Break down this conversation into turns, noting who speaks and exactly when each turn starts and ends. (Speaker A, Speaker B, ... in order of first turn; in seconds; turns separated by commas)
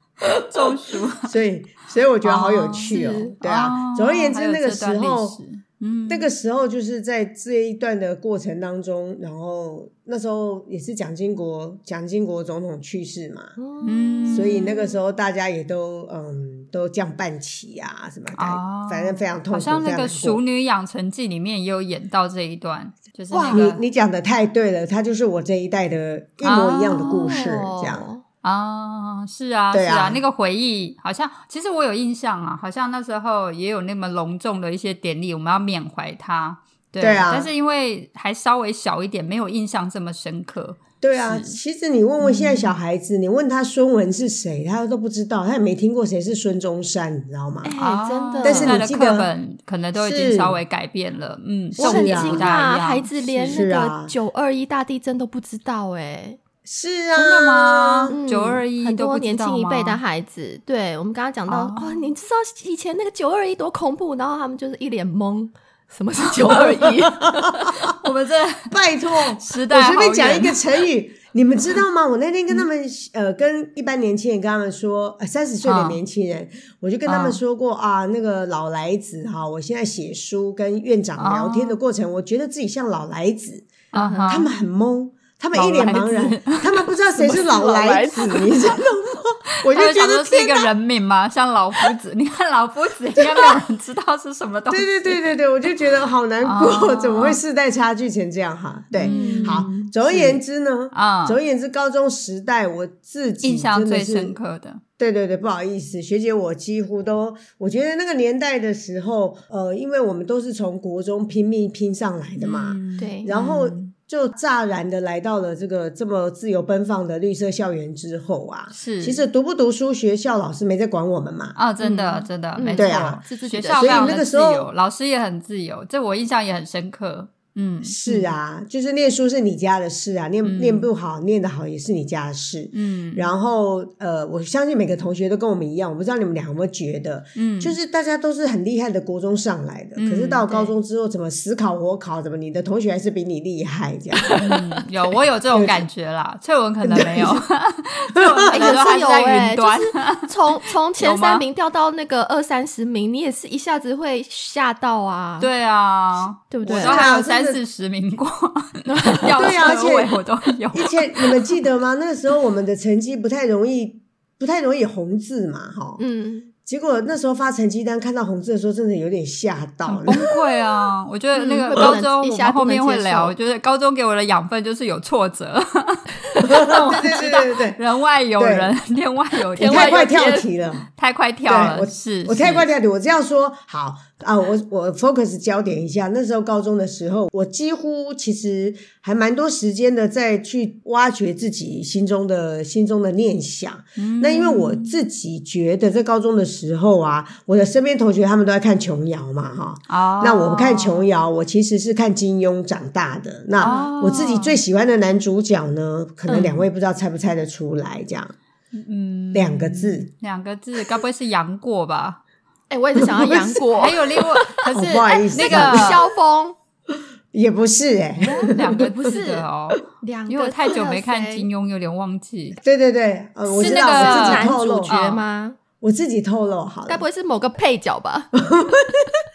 Speaker A: 0.4-1.3, Speaker B: 1.2-5.3, Speaker A: 2.2-6.3, Speaker C: 2.9-3.3, Speaker B: 6.1-13.6, Speaker C: 13.6-14.8, Speaker A: 13.8-14.7, Speaker B: 14.3-20.4, Speaker A: 18.4-23.8, Speaker C: 23.3-23.7, Speaker B: 23.5-28.0, Speaker A: 26.4-27.4, Speaker C: 26.5-28.2, Speaker A: 28.4-41.5, Speaker B: 29.7-30.2, Speaker B: 37.0-37.5, Speaker B: 41.0-47.8, Speaker A: 42.2-42.7, Speaker C: 47.6-48.8, Speaker A: 47.8-53.6, Speaker B: 48.4-49.3, Speaker B: 50.0-50.6, Speaker B: 51.8-52.5, Speaker C: 51.8-56.4, Speaker B: 53.4-54.1, Speaker B: 56.6-58.1, Speaker A: 57.2-60.0, Speaker C: 58.1-67.8, Speaker A: 61.5-62.1, Speaker B: 67.2-67.7, Speaker A: 67.9-70.6, Speaker B: 68.7-90.7, Speaker A: 75.6-76.0, Speaker A: 77.1-77.4, Speaker A: 81.2-81.8, Speaker C: 83.9-84.4, Speaker A: 83.9-84.5, Speaker A: 85.5-86.9, Speaker C: 87.2-88.6, Speaker A: 89.7-95.2, Speaker B: 93.2-93.6, Speaker B: 94.7-104.4, Speaker A: 96.4-97.4, Speaker A: 98.9-100.4, Speaker C: 99.0-99.9, Speaker A: 100.9-101.4, Speaker A: 103.4-104.8, Speaker B: 105.0-121.6, Speaker A: 112.4-113.9, Speaker C: 113.0-113.3, Speaker A: 118.7-119.2, Speaker A: 121.5-128.3, Speaker C: 121.8-124.2, Speaker B: 122.7-123.2, Speaker B: 123.7-124.7, Speaker B: 127.8-144.5, Speaker A: 130.4-130.9, Speaker A: 132.7-133.3, Speaker A: 137.3-137.8, Speaker A: 139.9-140.7, Speaker A: 144.4-150.4, Speaker B: 145.5-145.8, Speaker B: 146.8-147.4, Speaker B: 148.1-148.7, Speaker C: 148.5-155.5, Speaker A: 150.9-151.4, Speaker A: 155.4-161.6, Speaker C: 156.5-157.1, Speaker B: 156.6-157.6, Speaker C: 158.8-159.7, Speaker B: 159.3-160.1, Speaker B: 160.7-166.0, Speaker C: 166.0-166.5, Speaker B: 166.7-170.2, Speaker A: 169.9-180.3, Speaker C: 171.3-173.3, Speaker B: 176.4-177.8, Speaker B: 178.4-178.7, Speaker C: 179.5-180.5, Speaker B: 179.7-180.9, Speaker A: 180.9-182.7, Speaker B: 181.4-208.3, Speaker A: 194.0-195.0, Speaker A: 199.9-201.0, Speaker A: 203.6-204.6, Speaker C: 203.6-203.9, Speaker A: 206.3-206.7, Speaker A: 208.7-212.2, Speaker B: 209.3-210.1, Speaker C: 212.7-214.8, Speaker B: 213.0-213.5, Speaker A: 213.7-216.0, Speaker B: 214.7-216.0, Speaker C: 215.3-216.6, Speaker B: 217.3-218.9, Speaker A: 218.2-222.6, Speaker C: 218.7-221.4, Speaker B: 222.6-224.9, Speaker C: 223.5-225.6, Speaker A: 223.5-225.2, Speaker B: 225.8-227.0, Speaker C: 226.9-228.3, Speaker B: 228.3-229.1